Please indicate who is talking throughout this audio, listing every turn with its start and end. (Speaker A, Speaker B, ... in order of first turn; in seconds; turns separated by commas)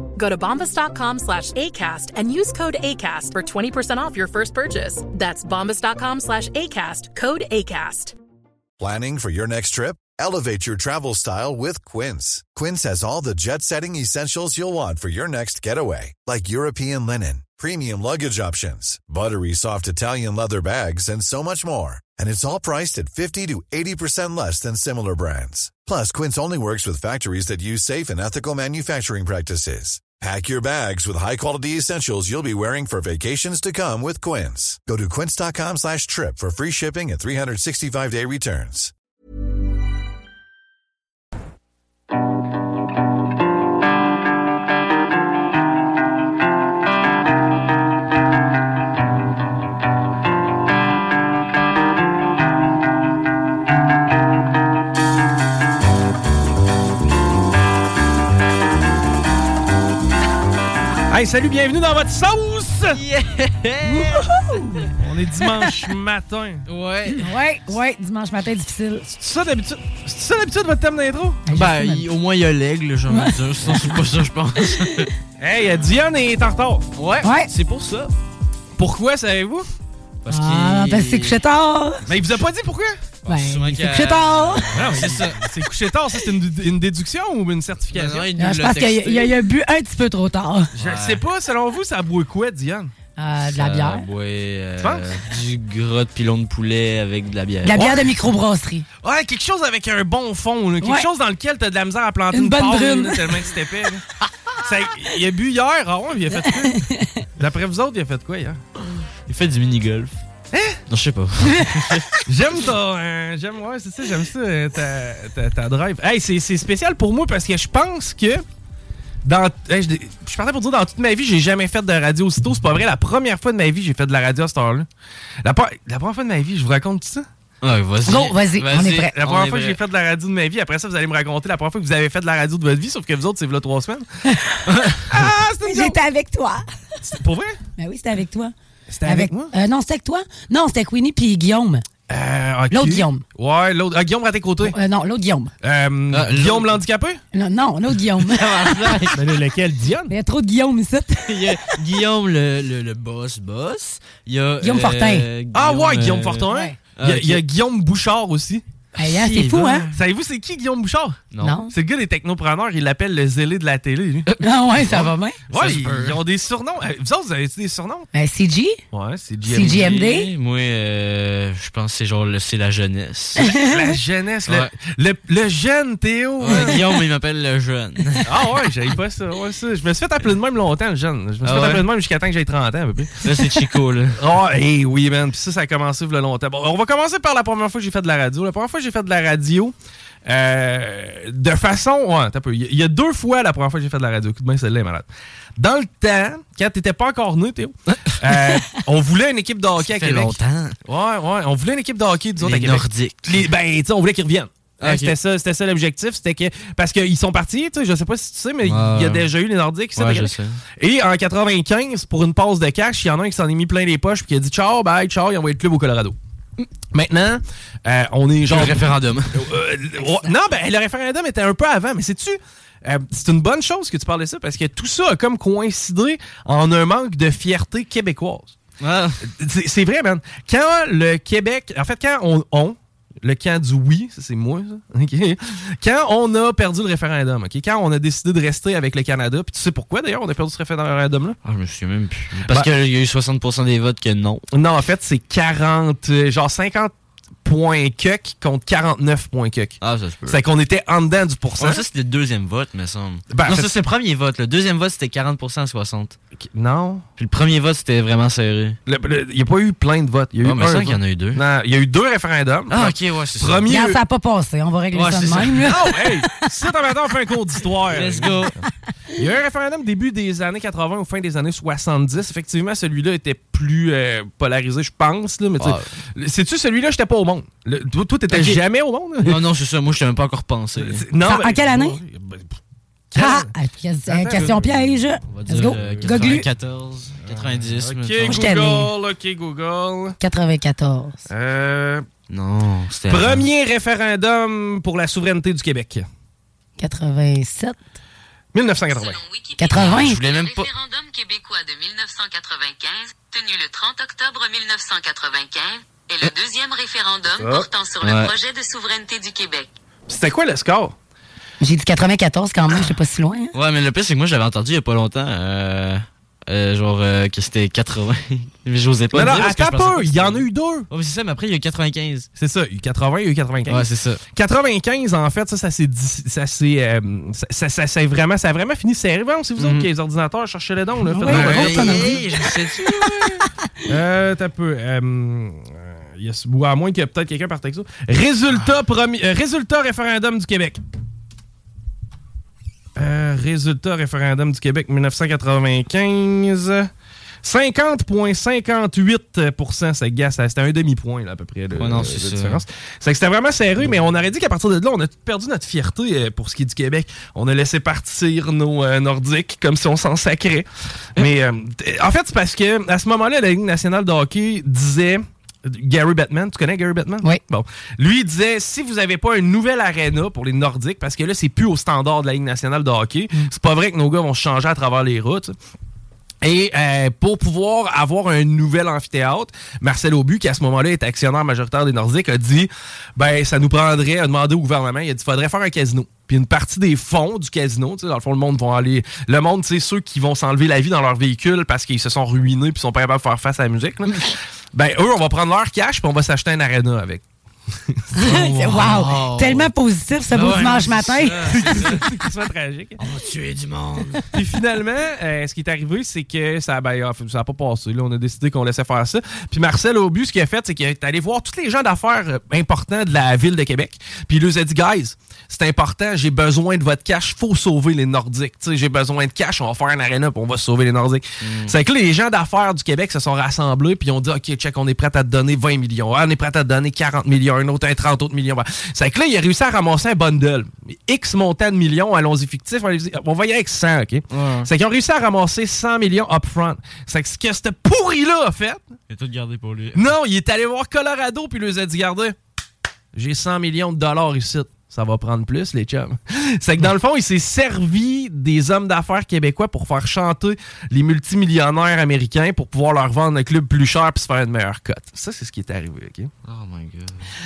Speaker A: 0.2-8.1, Speaker B: 8.8-38.9, Speaker C: 61.1-63.0, Speaker D: 62.9-64.2, Speaker E: 63.8-64.9, Speaker C: 65.0-66.7, Speaker E: 65.4-65.7, Speaker D: 66.7-67.3, Speaker E: 67.1-69.1, Speaker C: 69.1-71.5, Speaker E: 71.5-72.0, Speaker D: 71.5-75.1, Speaker E: 73.1-73.3, Speaker C: 75.4-77.0, Speaker D: 77.0-78.1, Speaker E: 77.2-77.5, Speaker C: 78.8-79.7, Speaker D: 80.2-81.4, Speaker E: 80.3-82.0, Speaker C: 82.1-83.0, Speaker D: 83.2-85.4, Speaker E: 83.2-84.7, Speaker C: 84.7-88.3, Speaker D: 87.9-89.3, Speaker E: 88.4-90.7, Speaker C: 90.8-92.9, Speaker D: 90.8-91.2, Speaker E: 93.2-94.0, Speaker D: 93.5-98.0, Speaker C: 94.8-95.0, Speaker E: 97.6-98.8, Speaker C: 99.0-104.0, Speaker E: 102.3-103.2, Speaker C: 104.6-106.8, Speaker E: 106.4-107.2, Speaker C: 107.4-108.6, Speaker D: 109.3-110.2, Speaker C: 110.5-110.8, Speaker D: 110.9-112.0, Speaker C: 112.2-118.4, Speaker C: 119.2-124.9, Speaker C: 125.4-127.3, Speaker D: 127.6-129.8, Speaker E: 128.0-129.1, Speaker C: 129.2-134.1, Speaker E: 134.3-134.6, Speaker D: 134.7-135.1, Speaker C: 135.1-136.0, Speaker E: 135.7-136.6, Speaker C: 137.0-137.6, Speaker E: 137.8-138.5, Speaker C: 138.9-139.5, Speaker E: 139.0-141.8, Speaker C: 142.1-144.7, Speaker E: 142.7-143.2, Speaker E: 144.6-145.5, Speaker C: 145.6-147.2, Speaker D: 146.1-146.8, Speaker E: 147.3-149.0, Speaker D: 148.2-149.2, Speaker C: 149.1-150.1, Speaker E: 150.1-151.7, Speaker D: 151.3-157.4, Speaker E: 154.6-155.3, Speaker C: 155.5-168.1, Speaker E: 156.5-156.7, Speaker E: 159.0-159.9, Speaker D: 161.3-161.6, Speaker E: 161.4-161.7, Speaker E: 164.4-165.4, Speaker D: 165.5-166.2, Speaker E: 168.1-168.8, Speaker C: 168.9-170.0, Speaker E: 169.5-170.3, Speaker D: 169.5-173.4, Speaker E: 173.4-173.9, Speaker C: 173.5-177.0, Speaker D: 174.5-174.7, Speaker D: 176.4-178.3, Speaker C: 178.2-183.2, Speaker D: 181.4-181.9, Speaker D: 183.2-184.2, Speaker C: 184.2-189.7, Speaker C: 190.2-216.2, Speaker D: 199.8-200.8, Speaker D: 202.4-203.4, Speaker D: 204.8-205.1, Speaker D: 208.6-209.3, Speaker D: 209.9-210.6, Speaker C: 216.9-228.6, Speaker D: 218.5-219.5, Speaker E: 220.0-220.3, Speaker D: 228.8-229.2, Speaker C: 229.2-241.4, Speaker D: 241.4-244.4, Speaker C: 242.4-242.7, Speaker C: 244.5-246.9, Speaker C: 247.4-251.8, Speaker D: 249.8-250.4, Speaker D: 251.6-256.1, Speaker C: 253.3-253.7, Speaker C: 256.5-257.0, Speaker D: 257.2-258.8, Speaker C: 258.9-264.0, Speaker D: 260.4-261.4, Speaker D: 262.7-263.7, Speaker E: 263.7-266.1, Speaker D: 264.9-265.7, Speaker C: 265.6-268.5, Speaker D: 267.9-268.5, Speaker C: 269.1-279.4, Speaker D: 275.6-275.9, Speaker D: 278.3-278.6, Speaker D: 279.2-281.0, Speaker C: 280.8-282.5, Speaker E: 281.2-282.0, Speaker C: 283.1-283.5, Speaker E: 283.1-286.5, Speaker D: 284.1-288.4, Speaker C: 287.2-290.2, Speaker E: 288.2-288.9, Speaker E: 290.2-291.1, Speaker C: 291.3-292.1, Speaker D: 292.3-293.4, Speaker C: 293.1-296.1, Speaker E: 296.8-297.8, Speaker C: 298.5-299.2, Speaker F: 298.9-309.7, Speaker E: 299.6-300.2, Speaker D: 299.7-300.7, Speaker D: 308.0-308.3, Speaker C: 310.1-310.9, Speaker E: 311.6-313.5, Speaker D: 313.5-322.3, Speaker C: 319.1-320.9, Speaker C: 322.4-332.2, Speaker D: 323.6-324.2, Speaker D: 329.6-329.9, Speaker E: 331.1-332.2, Speaker D: 331.2-333.4, Speaker C: 333.9-340.8, Speaker C: 342.9-346.9, Speaker C: 347.4-375.5, Speaker D: 351.8-352.6, Speaker C: 376.4-397.2, Speaker C: 397.9-398.9, Speaker E: 398.2-402.0, Speaker D: 398.3-399.7, Speaker D: 400.3-402.1, Speaker C: 401.4-403.0, Speaker D: 403.0-404.2, Speaker C: 404.3-438.9, Speaker D: 421.4-421.7, Speaker D: 434.3-434.7, Speaker D: 439.1-440.0, Speaker C: 439.9-442.3, Speaker C: 443.1-456.3, Speaker D: 456.4-457.3